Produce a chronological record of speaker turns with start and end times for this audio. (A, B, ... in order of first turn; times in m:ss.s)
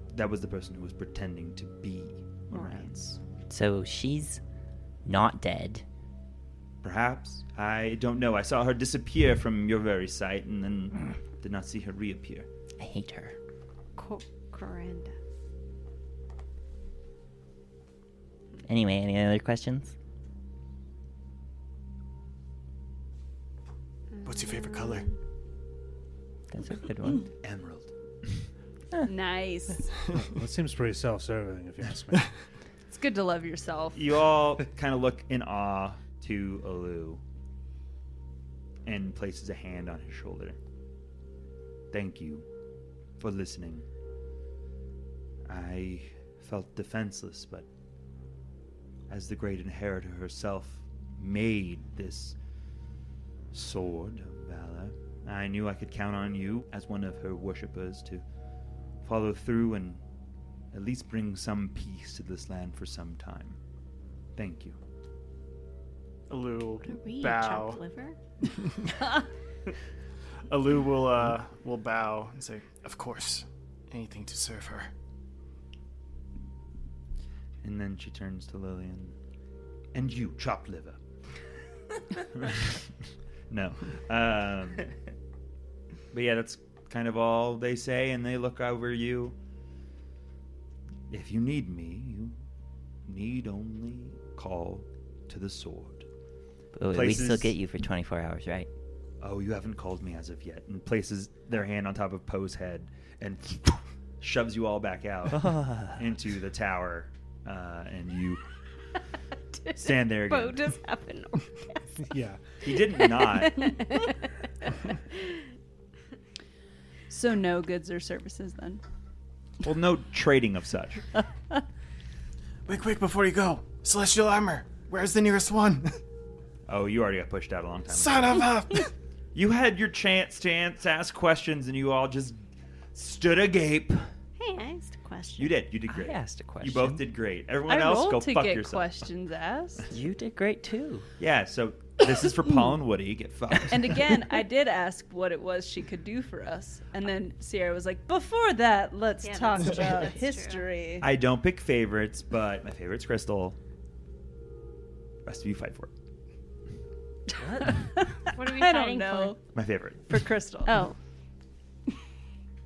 0:00.1-0:03.2 A
0:02.5-0:02.9 B
0:03.5-0:04.4 C
0:05.0-0:05.8 C
0:06.8-0:12.5 A
0:12.8-0:13.4 C
0:14.0-0:15.2 B
0:18.6-0:20.0 C
0:24.1-0:25.2 B
0:24.2-0:25.1 D
0:26.5-0:27.3 C
0:27.4-0:28.5 A
0:29.0-0:30.0 E
0:30.1-0:32.3 F
0:32.9-0:34.0 E
0:34.0-0:37.2 A
0:38.9-0:40.6 A
0:41.9-0:42.5 A
0:43.2-0:43.9 A
0:45.5-0:47.7 A
0:49.1-0:52.4 A
0:53.5-0:58.2 A
0:59.0-1:00.0 A
1:00.7-1:03.6 A
1:04.4-1:04.8 A
1:06.3-1:07.8 D
1:06.9-1:08.2 B
1:10.5-1:14.9 D
1:17.6-1:19.2 A
1:19.9-1:21.0 A
1:22.1-1:23.0 A
1:23.5-1:24.9 A
1:26.1-1:29.4 A
1:31.1-1:32.4 A
1:33.1-1:36.1 A
1:36.8-1:38.7 C
1:36.9-1:37.5 A
1:39.2-1:48.4 A
1:45.4-1:46.0 C
1:49.6-1:51.8 B
1:49.8-1:50.6 A
1:52.0-1:52.4 F
1:52.6-1:53.6 A
1:52.9-1:54.3 B
1:55.0-1:55.4 B
1:57.1-1:58.8 E
1:59.6-2:01.0 A
2:02.7-2:06.0 D
2:06.7-2:08.5 A
2:07.9-2:08.9 D
2:09.3-2:12.4 A
2:12.9-2:14.1 A
2:14.4-2:15.5 B
2:15.4-2:19.1 A
2:15.9-2:17.0 C
2:17.6-2:19.9 E
2:19.9-2:21.1 C
2:21.2-2:24.2 A
2:23.7-2:31.1 E
2:29.2-2:30.7 B
2:31.0-2:33.6 A
2:35.2-2:35.9 A
2:37.3-2:39.4 E
2:38.3-2:39.4 B
2:39.5-2:40.3 A
2:40.1-2:40.9 E
2:40.6-2:41.0 B